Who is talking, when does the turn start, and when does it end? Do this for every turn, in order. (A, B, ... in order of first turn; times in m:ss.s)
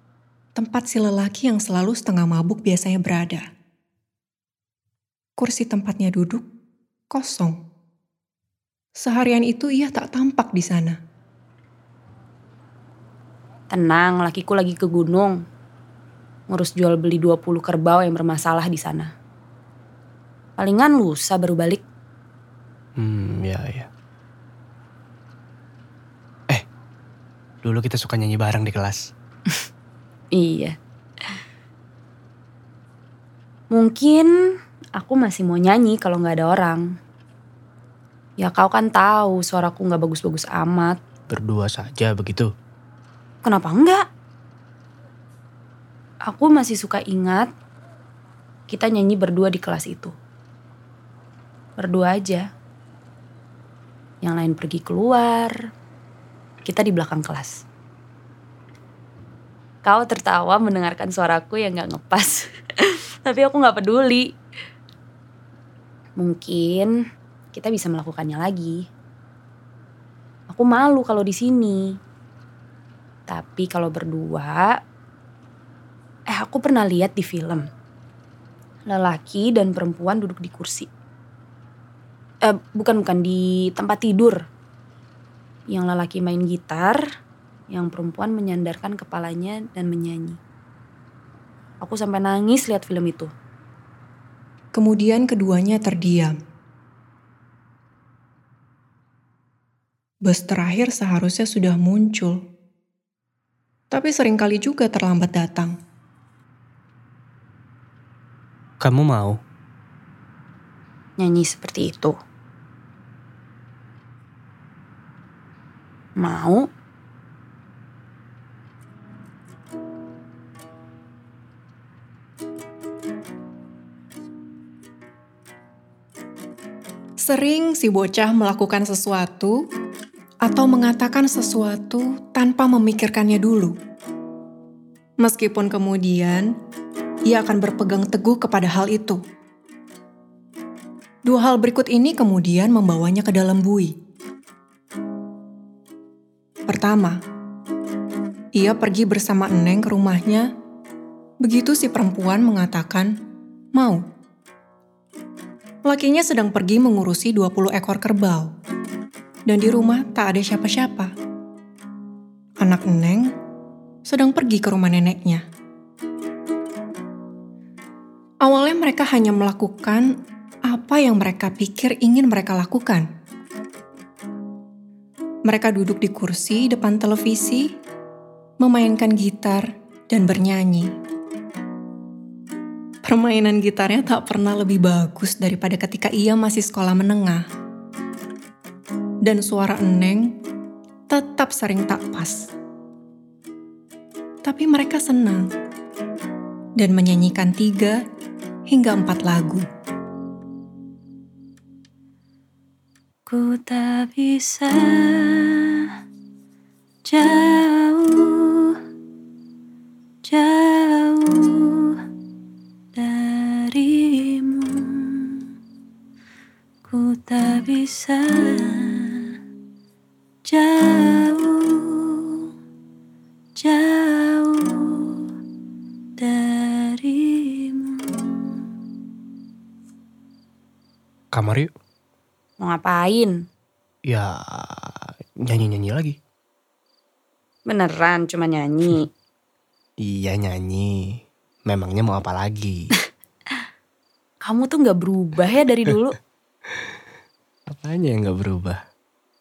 0:00.6-0:03.5 A
0:05.4-0:06.4 A
0:07.1-0:07.6 A
0:09.0-0:11.0 A
0:13.7-0:15.4 B
0:16.5-0:19.1 B
0:20.6-0:21.8 B
0:23.0-0:23.9 C
0:27.6-0:29.1 C
0:30.3-0:30.8 B
0:33.7-0:34.3 B
0:35.0-0:36.9 B
0:38.4-0:41.0 B
0:41.3-0:42.5 C
0:43.4-0:44.0 B
0:46.3-0:47.5 B
0:48.7-0:50.1 B
0:51.8-0:52.4 B
0:54.2-0:55.6 B
0:56.6-0:57.6 B
0:59.8-1:04.3 B
1:06.2-1:06.9 B
1:07.5-1:08.9 B
1:10.5-1:12.0 B
1:13.3-1:14.8 B
1:16.3-1:17.7 B
1:18.9-1:20.9 B
1:22.4-1:24.4 B
1:25.7-1:27.0 B
1:27.7-1:30.4 B
1:31.8-1:33.3 B
1:34.7-1:36.4 A
1:40.2-1:42.4 A
1:43.9-1:45.7 A
1:48.8-1:49.4 C
1:51.2-1:52.2 B
1:56.2-1:56.7 B
2:07.2-2:09.6 A
2:10.4-2:13.8 A
2:15.2-2:16.5 A
2:17.3-2:19.2 A
2:21.2-2:23.9 A
2:26.7-2:27.2 A
2:28.5-2:30.5 A
2:31.4-2:33.1 A
2:33.7-2:34.0 A
2:35.8-2:38.5 A
2:39.5-2:41.1 A
2:42.6-2:43.3 A
2:44.1-2:45.4 A
2:48.4-2:50.1 A
2:50.7-2:53.1 A
2:55.4-2:57.8 A
2:58.6-3:00.9 A
3:03.0-3:07.4 A
3:09.2-3:10.4 A
3:11.1-3:12.5 A
3:14.4-3:15.5 A
3:16.8-3:18.0 A
3:18.7-3:19.6 A
3:23.3-3:25.9 B
3:27.1-3:28.8 B
3:30.2-3:32.0 B
3:32.9-3:35.4 B
3:36.9-3:39.3 B
3:40.5-3:42.4 B
3:43.6-3:45.2 B
3:46.2-3:48.5 B
3:51.3-3:51.7 C
3:52.6-3:53.4 B
3:54.1-3:56.2 C
3:57.7-3:59.1 B
4:00.0-4:02.9 C
4:04.4-4:06.2 B
4:07.7-4:08.8 C